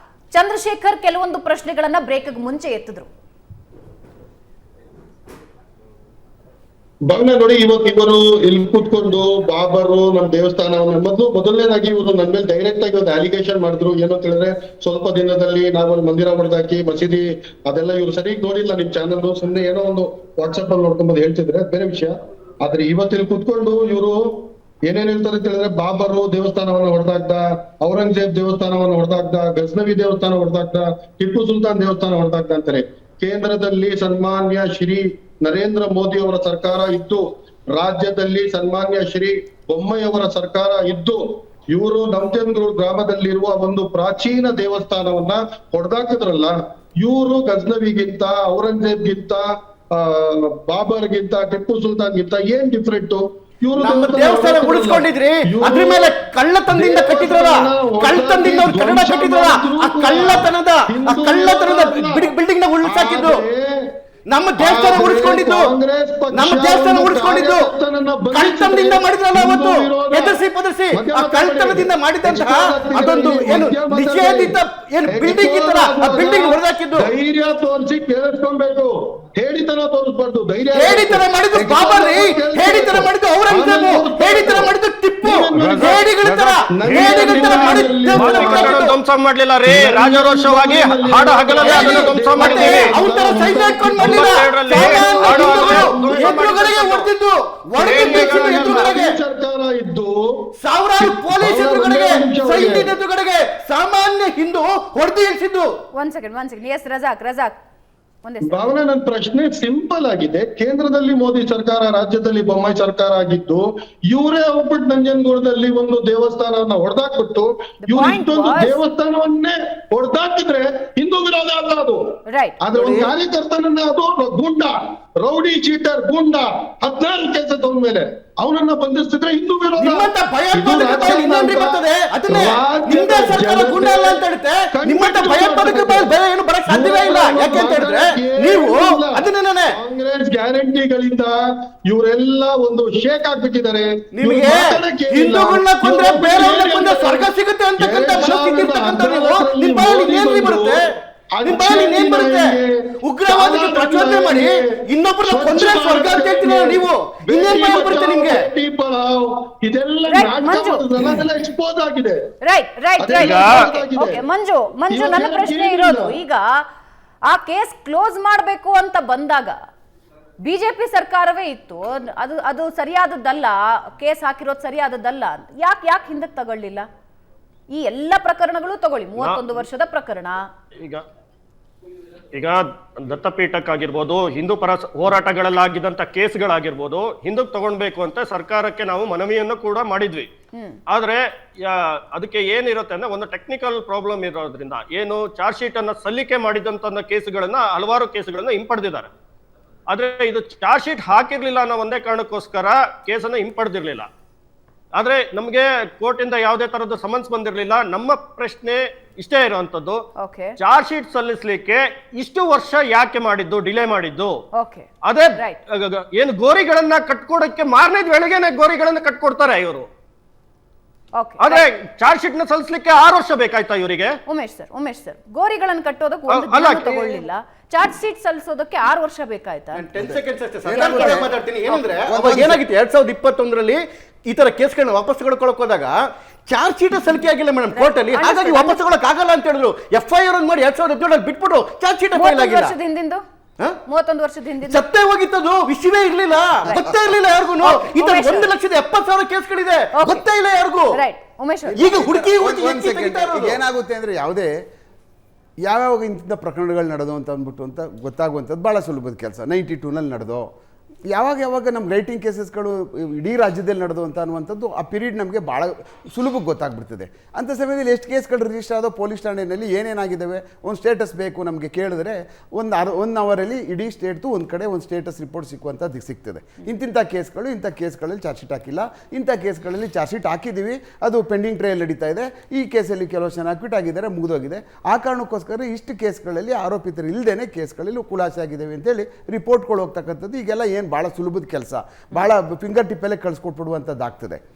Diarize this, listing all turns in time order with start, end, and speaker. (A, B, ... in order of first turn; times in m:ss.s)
0:00.3-0:03.1 A
0:07.1-0:41.2 B
0:41.7-0:56.2 B
0:53.8-1:03.4 C
0:56.7-1:03.7 B
1:04.3-1:05.8 C
1:04.6-1:10.4 B
1:06.3-1:07.7 C
1:08.3-1:17.1 C
1:10.9-1:26.1 B
1:20.7-1:29.0 C
1:25.7-1:26.3 D
1:26.7-1:28.9 B
1:26.9-1:33.0 D
1:29.6-1:36.4 B
1:31.6-1:39.2 C
1:34.0-1:37.1 D
1:37.8-1:38.7 D
1:37.8-1:40.2 B
1:40.6-1:45.7 C
1:41.0-1:42.9 B
1:46.0-1:47.6 A
1:48.2-1:48.7 A
1:48.5-2:02.0 B
1:57.9-1:58.8 A
2:02.3-2:02.6 A
2:02.6-2:16.1 B
2:02.8-2:03.1 C
2:09.8-2:19.8 C
2:16.7-2:21.3 B
2:21.9-2:30.8 B
2:24.1-2:30.8 C
2:31.4-2:34.6 B
2:31.4-2:38.5 C
2:35.2-2:42.2 B
2:40.1-2:40.8 A
2:42.4-2:46.4 A
2:43.0-2:44.2 B
2:43.2-2:43.6 D
2:44.9-2:46.2 B
2:47.3-2:49.6 A
2:50.4-2:56.9 A
2:57.7-3:00.4 A
3:02.3-3:10.3 D
3:10.5-3:10.8 A
3:10.9-3:19.1 D
3:19.9-3:24.1 D
3:25.0-3:30.0 D
3:30.2-3:30.6 A
3:30.6-3:34.4 D
3:34.6-3:35.6 A
3:35.0-3:39.9 D
3:41.2-3:41.7 A
3:41.4-3:44.2 D
3:44.3-3:49.9 A
3:46.3-3:47.2 D
3:49.7-3:56.0 C
3:50.0-3:51.3 E
3:50.7-3:51.2 A
3:52.0-3:52.6 E
3:56.5-4:02.7 C
3:57.8-3:58.8 A
4:02.1-4:03.2 A
4:03.9-4:04.8 A
4:04.7-4:10.9 C
4:06.6-4:07.0 A
4:07.6-4:08.5 A
4:10.0-4:10.2 A
4:10.9-4:12.0 A
4:11.7-4:14.5 E
4:11.8-4:13.6 C
4:15.6-4:20.4 E
4:21.1-4:54.4 E